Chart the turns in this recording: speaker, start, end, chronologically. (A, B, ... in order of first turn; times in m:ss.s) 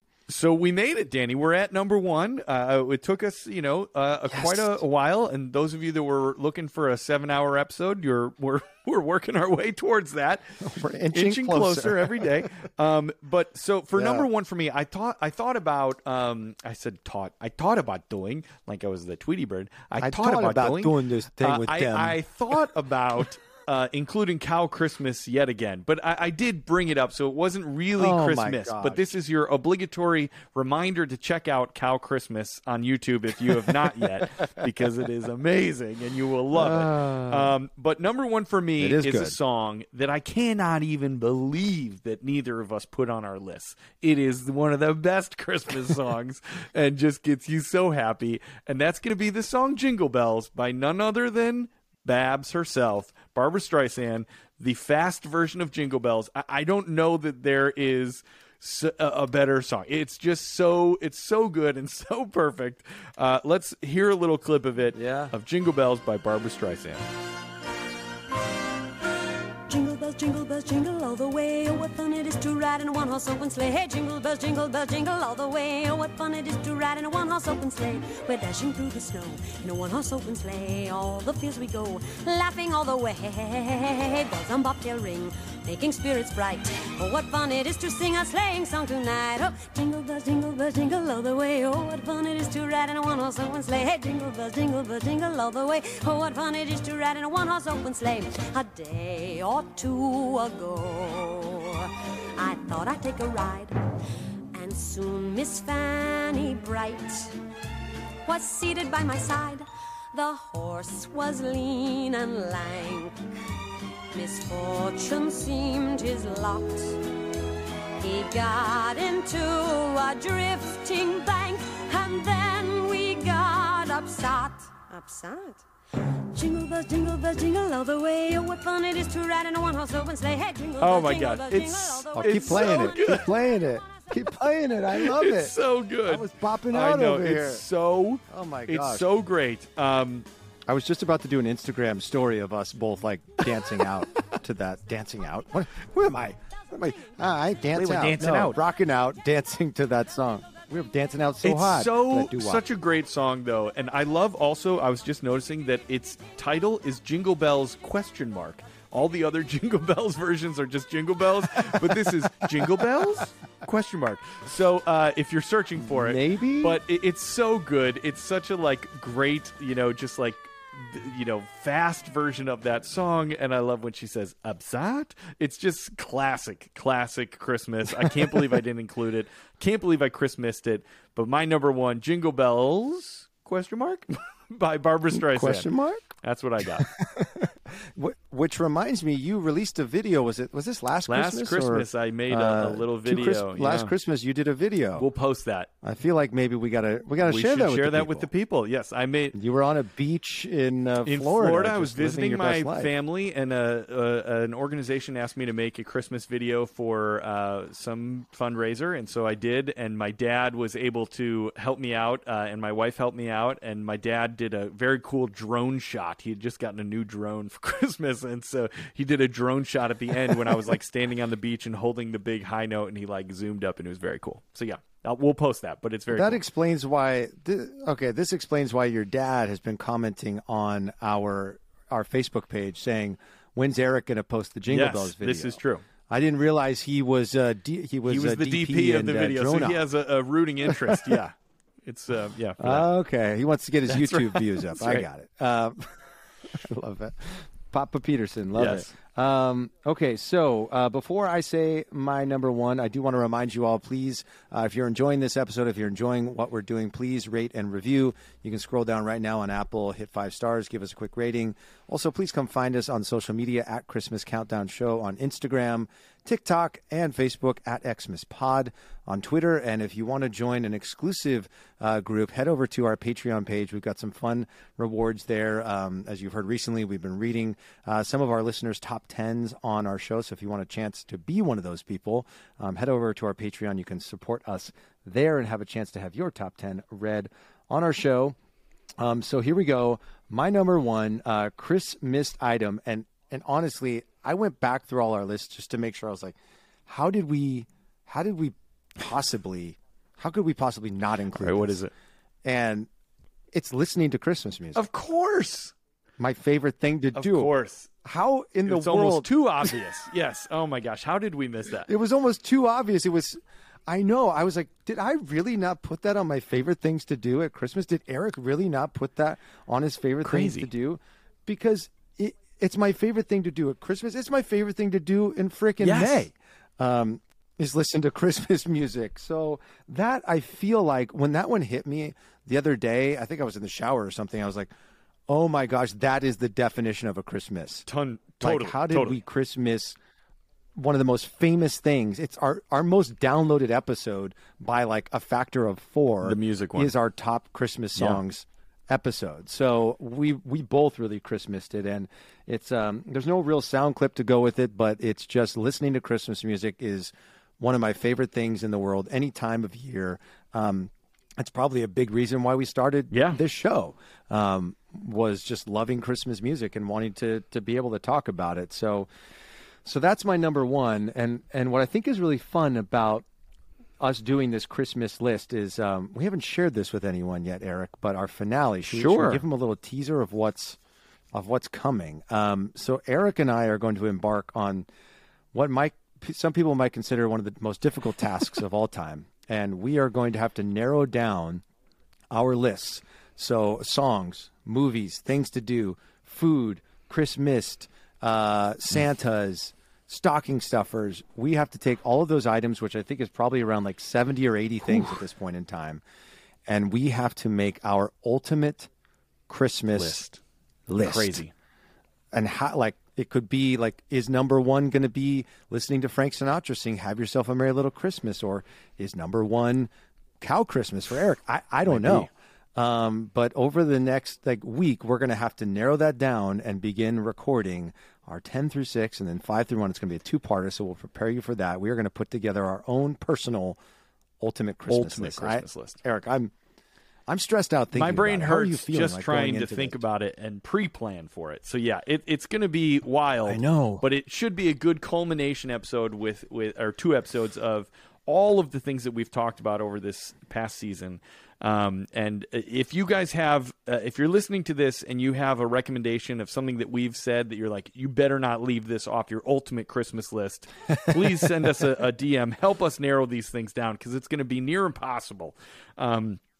0:00.3-0:10.5 A
0:04.3-0:04.8 B
0:10.6-0:12.4 B
0:11.1-1:07.0 A
0:13.9-0:14.3 B
0:20.0-0:22.2 B
0:28.0-0:29.1 B
0:36.5-0:37.5 B
0:38.8-0:39.4 B
1:04.9-1:05.3 B
1:09.7-1:43.8 C
1:44.5-1:47.3 C
1:48.2-1:53.2 C
1:54.1-1:57.0 C
1:58.0-2:05.6 C
2:06.3-2:13.2 C
2:10.8-2:13.3 A
2:12.1-2:17.6 B
2:14.9-2:20.2 A
2:18.3-2:19.1 B
2:20.6-2:32.6 B
2:27.7-2:28.6 A
2:31.4-3:05.7 A
2:41.7-2:42.7 B
2:45.8-2:46.8 B
2:57.9-2:58.6 B
3:05.1-3:06.1 B
3:06.2-3:06.9 A
3:06.8-3:15.1 B
3:11.1-3:13.9 A
3:15.0-3:15.7 A
3:15.8-3:18.3 B
3:17.2-3:19.4 A
3:19.3-3:22.9 B
3:21.0-3:46.4 A
3:40.3-3:40.6 B
3:46.1-3:59.8 B
3:54.7-3:55.8 A
3:58.0-4:02.9 A
4:00.7-4:01.2 B
4:02.6-4:48.4 B
4:03.9-4:05.1 A
4:08.6-4:08.9 A
4:49.0-5:01.8 B
5:01.4-5:01.9 A
5:02.4-5:02.9 B
5:03.5-5:04.8 B
5:04.7-5:05.7 A
5:06.2-5:07.5 B
5:07.1-5:07.9 A
5:08.0-5:09.3 B
5:08.6-5:11.9 A
5:11.8-5:34.7 B
5:20.2-5:20.7 A
5:25.8-5:26.3 A
5:35.3-5:37.8 B
5:37.8-5:39.2 A
5:38.4-5:40.0 B
5:40.7-6:09.1 B
5:46.2-5:46.9 A
5:47.9-5:48.2 A
6:03.1-6:03.4 A
6:09.8-6:13.2 B
6:14.0-6:20.8 B
6:18.9-6:19.4 A
6:21.3-6:24.9 B
6:25.5-6:31.6 B
6:32.3-6:46.0 B
6:46.7-6:48.9 B
6:49.5-6:50.2 B
6:49.9-6:50.4 A
6:50.9-6:51.4 B
6:51.0-6:51.5 A
6:52.3-7:13.8 B
7:01.9-7:02.3 A
7:14.4-7:16.5 B
7:14.9-7:16.0 A
7:17.3-7:20.0 B
7:17.9-7:46.4 A
7:23.4-7:24.0 B
7:40.9-7:41.5 B